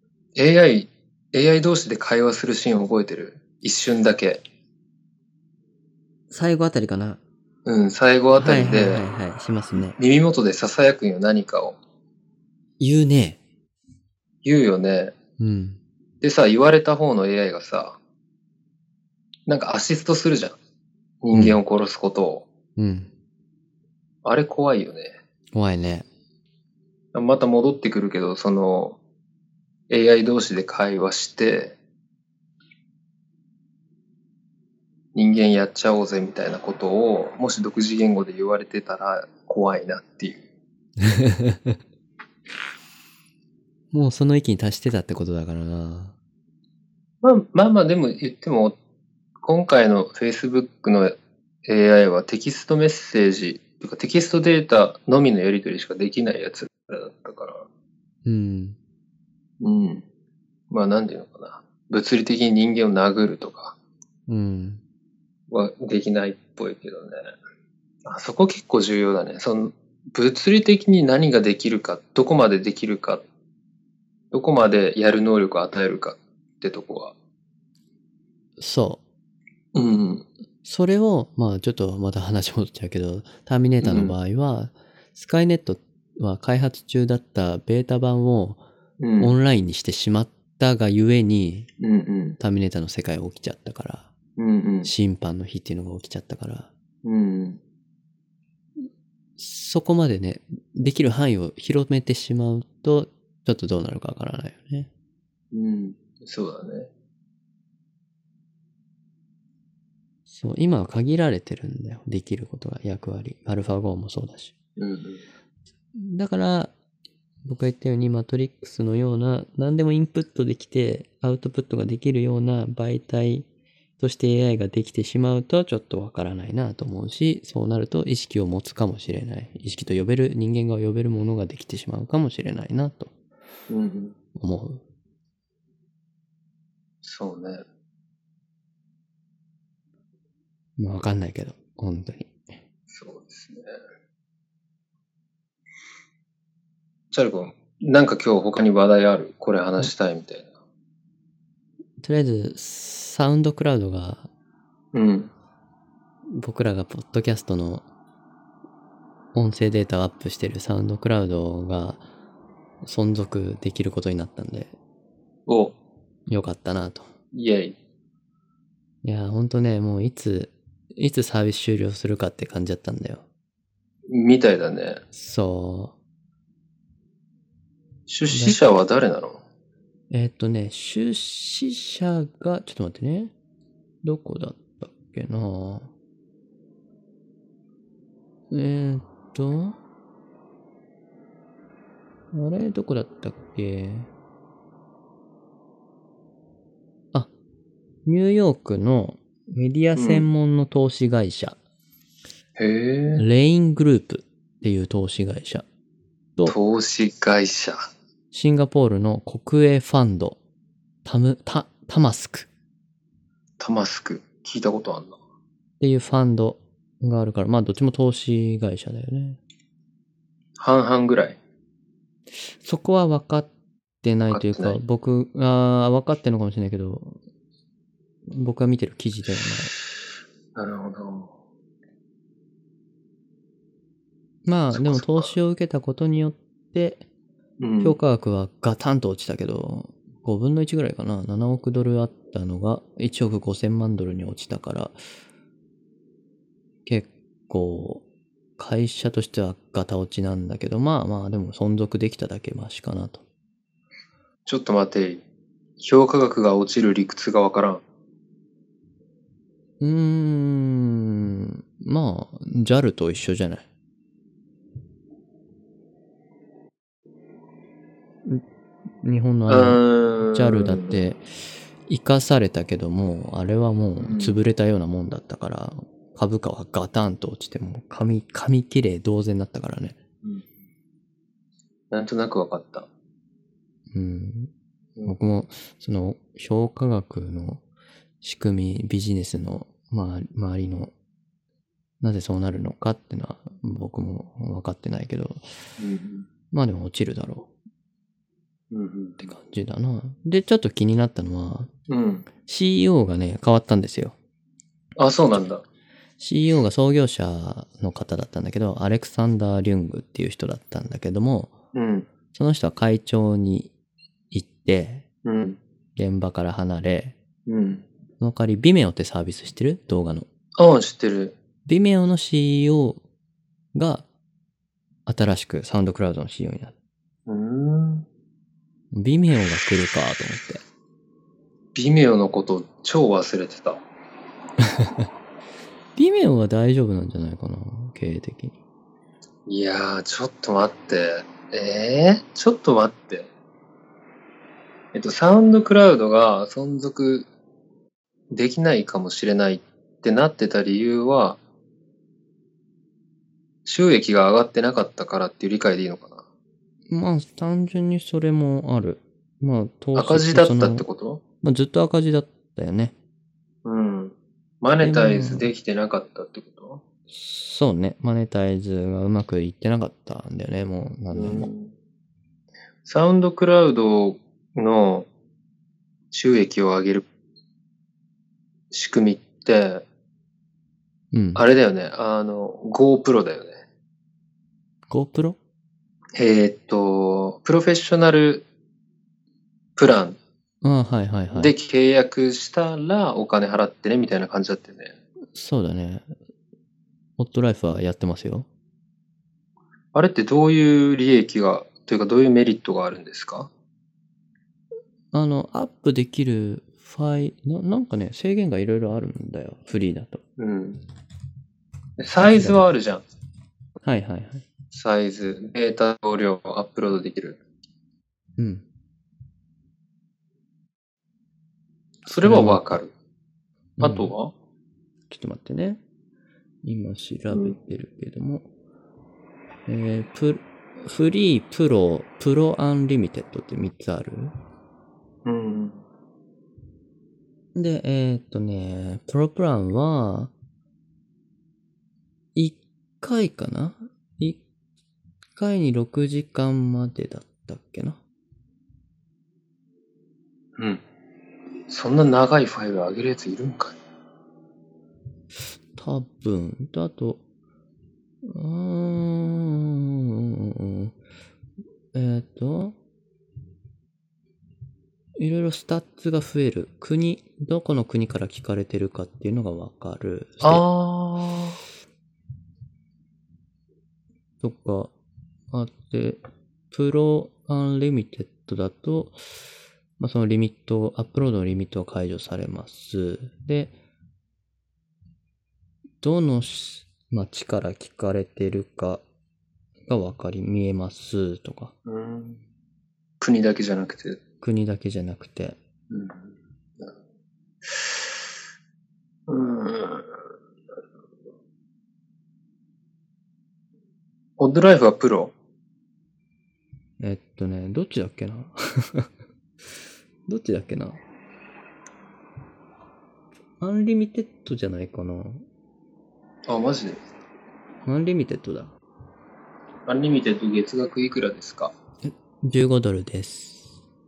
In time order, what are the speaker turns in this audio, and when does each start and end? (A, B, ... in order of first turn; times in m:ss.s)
0:00.4-0:04.4 A
0:06.3-0:07.2 B
0:07.6-0:09.0 A
0:08.3-0:10.0 B
0:10.0-0:11.8 A
0:12.8-0:13.4 B
0:14.4-0:15.1 A
0:15.4-0:15.8 B
0:16.2-0:18.0 A
0:19.5-0:20.6 A
0:21.2-0:22.5 A
0:21.3-0:21.6 B
0:22.8-0:23.1 B
0:24.2-0:25.1 A
0:25.5-0:26.1 B
0:27.1-0:29.0 A
0:29.9-0:31.8 A
0:35.1-0:40.4 A
0:41.0-0:41.8 B
0:43.9-0:46.1 B
0:47.2-0:48.8 A
0:49.4-0:57.7 A
0:58.2-0:58.8 B
0:59.6-1:00.0 A
1:00.7-1:03.8 A
1:04.3-1:04.8 B
1:05.5-1:07.2 A
1:08.0-1:13.2 A
1:14.3-1:17.1 A
1:18.6-1:19.0 B
1:19.7-1:20.2 A
1:20.6-1:28.6 B
1:23.8-1:24.1 A
1:29.0-1:29.3 A
1:29.2-1:31.7 B
1:31.8-1:32.4 A
1:32.4-1:34.1 B
1:34.4-1:34.9 A
1:34.8-1:36.7 B
1:37.0-1:37.6 A
1:39.4-1:44.9 B
1:45.5-1:46.9 A
1:50.3-1:54.5 B
1:54.8-1:55.2 A
1:56.0-1:56.7 B
1:57.4-2:03.5 B
2:04.0-2:13.1 B
2:13.7-2:14.2 A
2:14.4-2:14.8 B
2:17.0-2:17.6 A
2:20.8-2:22.5 B
2:22.9-2:23.7 A
2:27.1-2:30.5 A
2:32.0-2:34.3 B
2:34.9-2:35.3 A
2:36.3-2:37.8 B
2:39.3-2:42.0 B
2:42.8-2:44.7 B
2:45.5-2:45.7 A
2:46.3-2:47.1 B
2:47.3-2:47.8 A
2:49.0-2:53.2 B
2:54.1-2:55.0 A
2:55.1-2:55.9 B
2:58.1-2:59.4 A
2:58.3-2:58.6 B
3:00.1-3:03.3 B
3:04.0-3:05.9 B
3:08.5-3:09.8 B
3:12.3-3:14.1 B
3:18.0-3:21.6 B
3:19.9-3:20.2 A
3:22.6-3:23.2 A
3:23.2-3:25.6 B
3:26.4-3:27.8 A
3:28.3-3:30.4 B
3:31.0-3:32.5 B
3:33.6-3:35.2 A
3:35.8-3:39.4 B
3:40.6-3:41.4 A
3:42.5-3:43.5 B
3:44.0-3:47.2 B
3:44.3-3:44.8 A
3:48.3-3:49.7 B
3:50.6-3:51.3 A
3:54.4-3:57.0 B
3:54.7-3:55.3 A
3:57.6-3:58.0 A
3:57.8-4:05.0 B
4:06.8-4:08.0 B
4:08.6-4:13.2 B
4:14.4-4:15.2 A
4:15.8-4:17.8 A
4:19.8-4:23.6 B
4:29.0-4:31.2 B
4:29.5-4:31.0 A
4:31.8-4:40.0 B
4:34.0-4:34.4 A
4:41.9-4:42.9 A
4:43.9-4:44.5 B
4:45.0-4:47.6 B
4:48.2-4:50.9 B
4:52.0-4:55.4 B
4:55.8-4:56.3 A
4:56.5-4:57.5 B
4:58.7-4:59.3 A
4:59.2-5:01.7 B
5:01.9-5:02.3 A
5:02.4-5:04.1 B
5:05.0-5:05.6 A
5:06.2-5:11.5 B
5:11.7-5:12.1 A
5:12.3-5:13.7 B
5:14.3-5:15.0 B
5:15.2-5:15.6 A
5:16.0-5:17.2 B
5:17.5-5:17.8 A
5:18.2-5:20.3 B
5:20.6-5:21.4 A
5:21.6-5:23.0 B
5:23.7-5:24.0 B
5:25.0-5:26.7 B
5:27.3-5:28.0 A
5:28.9-5:30.6 B
5:31.7-5:33.8 A
5:34.6-5:35.1 B
5:36.0-5:38.6 B
5:39.5-5:43.3 A
5:44.9-5:47.3 A
5:48.3-5:51.4 A
5:53.6-5:56.2 A
5:56.9-6:00.9 B
5:59.9-6:01.2 A
6:01.4-6:02.9 B
6:03.6-6:06.8 A
6:04.8-6:05.5 B
6:07.1-6:11.5 B
6:11.1-6:11.7 A
6:12.8-6:15.1 A
6:16.1-6:17.0 A
6:18.7-6:19.8 A
6:21.1-6:21.4 B
6:21.3-6:23.6 A
6:24.9-6:25.4 B
6:26.2-6:28.4 A
6:29.8-6:30.2 A
6:30.6-6:31.5 B
6:31.3-6:34.9 A
6:35.3-6:36.1 B
6:37.2-6:38.5 B
6:39.9-6:43.5 A
6:45.1-6:50.2 B
6:50.4-6:50.8 A
6:52.0-6:53.0 A
6:52.2-6:52.6 B
6:53.8-6:54.5 B
6:54.7-6:57.4 A
6:58.4-6:58.6 B
7:02.0-7:02.9 A
7:02.2-7:02.8 B
7:03.8-7:04.1 B
7:03.8-7:04.3 A
7:05.1-7:05.8 B
7:06.6-7:08.4 B
7:07.3-7:07.6 A
7:09.7-7:14.3 B
7:15.2-7:15.8 A
7:17.5-7:20.3 B
7:22.3-7:24.4 B
7:25.4-7:28.0 B
7:30.6-7:30.8 A
7:31.7-7:33.8 A
7:35.7-7:37.2 B
7:38.2-7:41.0 B
7:41.9-7:42.8 B
7:45.2-7:50.6 B
7:50.4-7:51.6 A
7:54.4-7:54.9 B
7:55.5-7:59.2 B
8:00.0-8:03.7 B
8:06.0-8:09.0 B
8:09.9-8:11.7 B
8:11.8-8:12.4 A
8:13.2-8:14.2 A
8:14.4-8:15.6 B
8:15.9-8:16.9 A
8:17.6-8:17.9 A
8:19.3-8:20.2 A
8:24.4-8:25.3 A
8:27.0-8:29.1 B
8:30.3-8:31.0 B
8:33.6-8:35.4 B
8:36.5-8:37.0 A
8:37.8-8:38.7 B
8:39.9-8:41.7 A
8:42.0-8:43.7 B